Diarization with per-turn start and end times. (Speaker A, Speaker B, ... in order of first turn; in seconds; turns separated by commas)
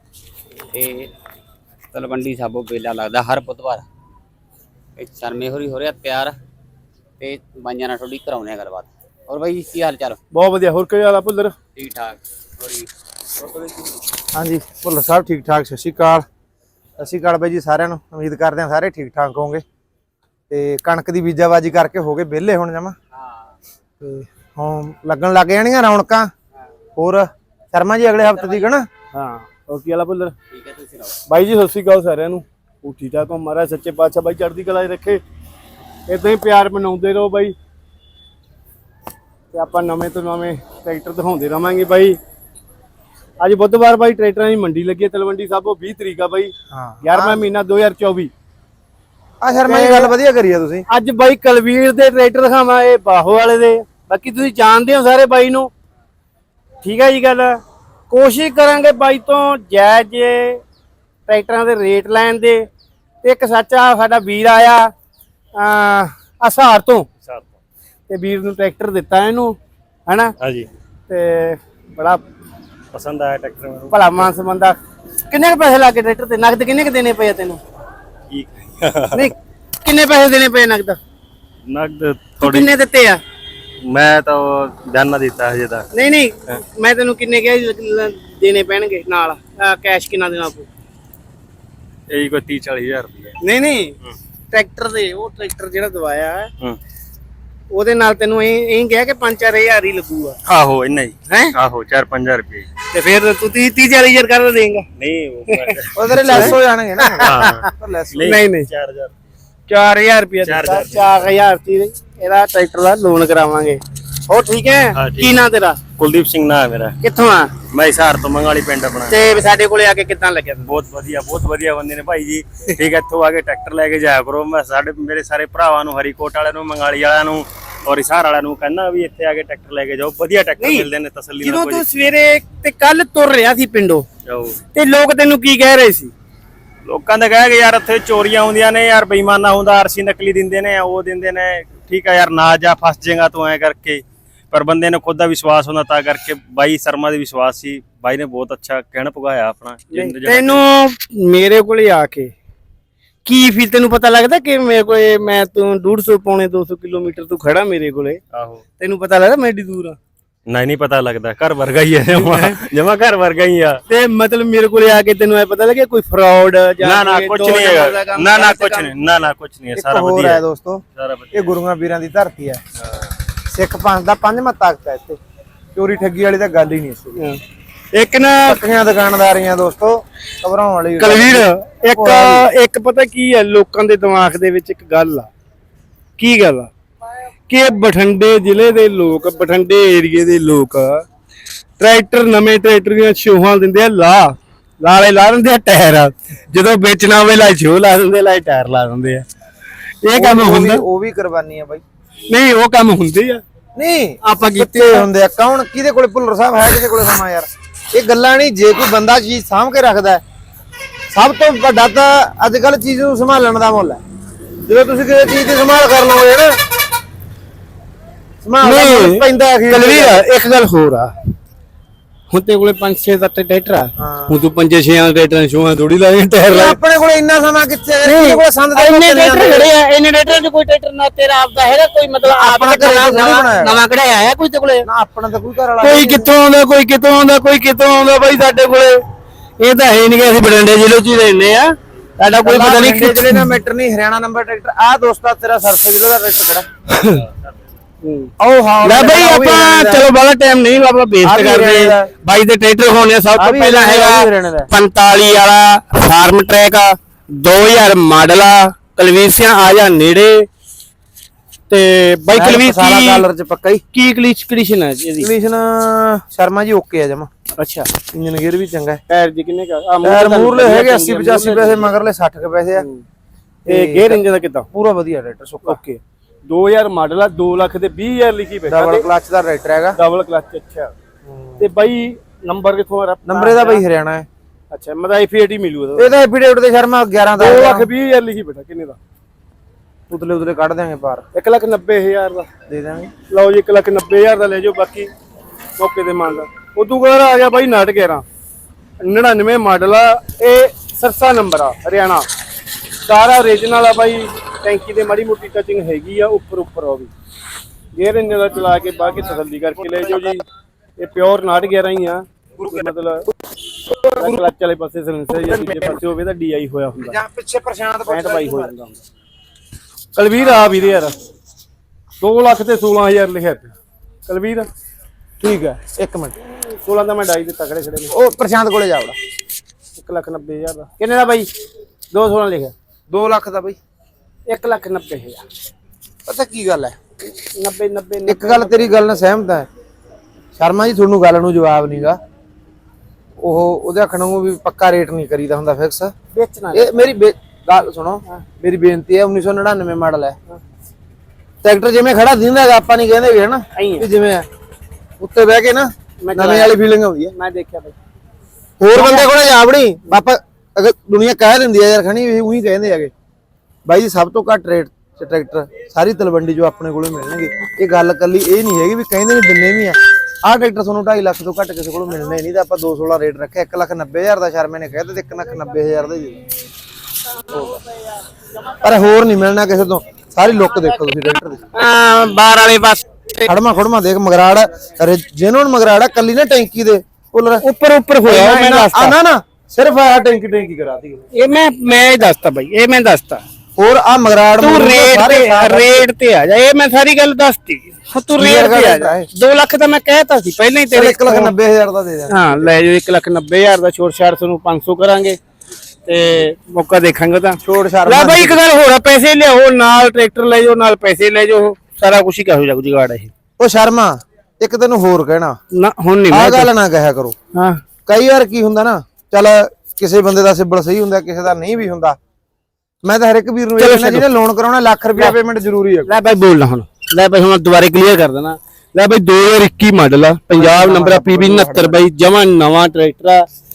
Speaker A: 0.7-1.1, Speaker A: 1.9-3.8, Speaker A: 5.0-6.3, Speaker A: 7.2-10.2, Speaker B: 10.3-11.6, Speaker A: 11.7-12.9, Speaker C: 14.3-16.2, Speaker C: 17.0-19.6, Speaker C: 20.5-22.9, Speaker C: 24.6-26.3, Speaker C: 26.9-28.9, Speaker B: 29.1-30.4, Speaker A: 30.5-31.1, Speaker B: 31.3-35.2, Speaker B: 36.1-37.5, Speaker B: 39.5-42.2, Speaker B: 43.4-48.3, Speaker C: 46.7-47.4, Speaker C: 49.4-50.9, Speaker B: 49.6-50.1, Speaker B: 50.9-55.7, Speaker B: 56.8-60.6, Speaker B: 61.3-62.7, Speaker B: 63.2-64.9, Speaker B: 65.5-67.1, Speaker B: 68.1-70.3, Speaker D: 70.4-70.7, Speaker B: 71.1-72.2, Speaker D: 72.9-74.2, Speaker B: 73.9-74.8, Speaker B: 75.3-77.6, Speaker D: 78.3-79.3, Speaker B: 79.1-81.0, Speaker D: 81.7-82.7, Speaker B: 82.4-83.2, Speaker D: 83.8-85.9, Speaker B: 85.9-90.7, Speaker D: 92.1-93.4, Speaker B: 93.4-94.0, Speaker B: 94.5-96.5, Speaker B: 97.7-100.4, Speaker D: 100.5-102.7, Speaker B: 101.3-101.5, Speaker B: 102.9-104.9, Speaker D: 105.0-106.6, Speaker B: 105.5-107.6, Speaker C: 106.0-108.3, Speaker D: 107.2-109.1, Speaker B: 108.2-108.7, Speaker B: 109.7-115.8, Speaker D: 110.4-111.2, Speaker D: 115.0-115.4, Speaker D: 116.0-117.0, Speaker B: 117.0-117.5, Speaker D: 117.7-119.4, Speaker B: 119.1-120.7, Speaker D: 120.6-131.8, Speaker B: 130.6-130.9, Speaker B: 131.4-134.1, Speaker D: 134.2-134.6, Speaker B: 134.7-136.1, Speaker D: 136.9-150.6, Speaker B: 149.9-152.3, Speaker B: 153.2-158.2, Speaker D: 158.3-158.6, Speaker B: 158.8-160.0, Speaker D: 160.5-163.8, Speaker B: 162.1-162.5, Speaker B: 163.9-168.9, Speaker D: 166.8-170.4, Speaker C: 169.7-172.6, Speaker D: 170.9-171.4, Speaker C: 173.5-175.2, Speaker C: 175.7-177.2, Speaker B: 177.9-178.6, Speaker C: 178.4-182.5, Speaker B: 181.0-185.3, Speaker B: 186.2-186.7, Speaker B: 187.5-191.0, Speaker B: 191.8-199.2, Speaker B: 200.0-200.8, Speaker C: 200.1-201.8, Speaker B: 202.3-203.4, Speaker C: 203.8-210.2, Speaker B: 204.2-205.1, Speaker C: 211.1-214.0, Speaker C: 214.6-216.6, Speaker C: 218.4-220.2, Speaker B: 218.6-221.1, Speaker B: 222.3-226.8, Speaker C: 224.0-224.4, Speaker C: 226.5-229.7, Speaker B: 228.0-234.9, Speaker C: 232.2-233.8, Speaker C: 234.8-236.3, Speaker B: 235.8-239.0, Speaker B: 239.6-243.5, Speaker C: 242.4-246.7, Speaker B: 246.9-247.2, Speaker B: 248.0-248.3, Speaker C: 248.4-250.1, Speaker B: 248.8-260.5, Speaker C: 251.2-252.1, Speaker C: 253.3-254.7, Speaker B: 261.7-263.2, Speaker C: 262.3-263.8, Speaker B: 263.9-265.3, Speaker C: 265.2-267.3, Speaker B: 267.6-267.9, Speaker C: 268.1-269.0, Speaker B: 269.1-271.9, Speaker C: 270.0-272.9, Speaker B: 272.7-273.0, Speaker C: 273.6-275.8, Speaker B: 273.7-274.7, Speaker B: 275.6-279.0, Speaker C: 278.7-280.0, Speaker B: 279.9-280.9, Speaker C: 281.2-281.6, Speaker B: 281.6-283.8, Speaker C: 283.2-284.3, Speaker B: 284.7-286.1, Speaker C: 285.9-287.9, Speaker B: 287.4-289.0, Speaker C: 290.1-291.2, Speaker B: 291.3-292.5, Speaker C: 292.7-293.1, Speaker B: 293.3-295.1, Speaker B: 295.8-298.2, Speaker B: 299.0-302.2, Speaker B: 303.1-307.1, Speaker B: 307.9-310.4, Speaker B: 311.0-313.3, Speaker C: 313.9-314.4, Speaker B: 314.1-317.2, Speaker C: 315.4-315.9, Speaker C: 317.0-318.7, Speaker B: 318.1-319.0, Speaker B: 320.1-321.1, Speaker B: 322.2-323.7, Speaker B: 324.2-324.7, Speaker C: 325.4-326.3, Speaker B: 326.5-328.1, Speaker C: 328.1-329.1, Speaker B: 329.9-331.5, Speaker B: 332.1-332.7, Speaker C: 333.1-333.8, Speaker B: 334.5-335.4, Speaker C: 336.2-336.9, Speaker B: 337.3-339.0, Speaker C: 338.3-339.7, Speaker C: 340.6-342.2, Speaker C: 343.4-346.1, Speaker B: 346.3-347.1, Speaker C: 346.7-350.4, Speaker C: 351.6-354.4, Speaker B: 353.7-354.1, Speaker C: 355.2-357.3, Speaker B: 356.2-356.8, Speaker B: 357.3-357.9, Speaker C: 358.8-363.1, Speaker B: 358.9-359.3, Speaker C: 363.8-376.4, Speaker C: 378.8-381.6, Speaker B: 381.7-383.5, Speaker C: 383.4-387.6, Speaker B: 387.6-389.1, Speaker C: 388.2-391.2, Speaker B: 391.3-393.4, Speaker C: 393.8-396.1, Speaker B: 394.6-401.5, Speaker C: 398.4-399.3, Speaker C: 400.9-402.7, Speaker B: 402.3-405.4, Speaker B: 406.1-413.3, Speaker C: 407.6-408.6, Speaker C: 413.6-415.6, Speaker B: 415.7-416.7, Speaker C: 416.3-417.3, Speaker B: 417.5-417.8, Speaker C: 418.1-422.2, Speaker C: 423.0-426.1, Speaker B: 423.8-424.3, Speaker B: 426.1-433.4, Speaker C: 430.5-432.0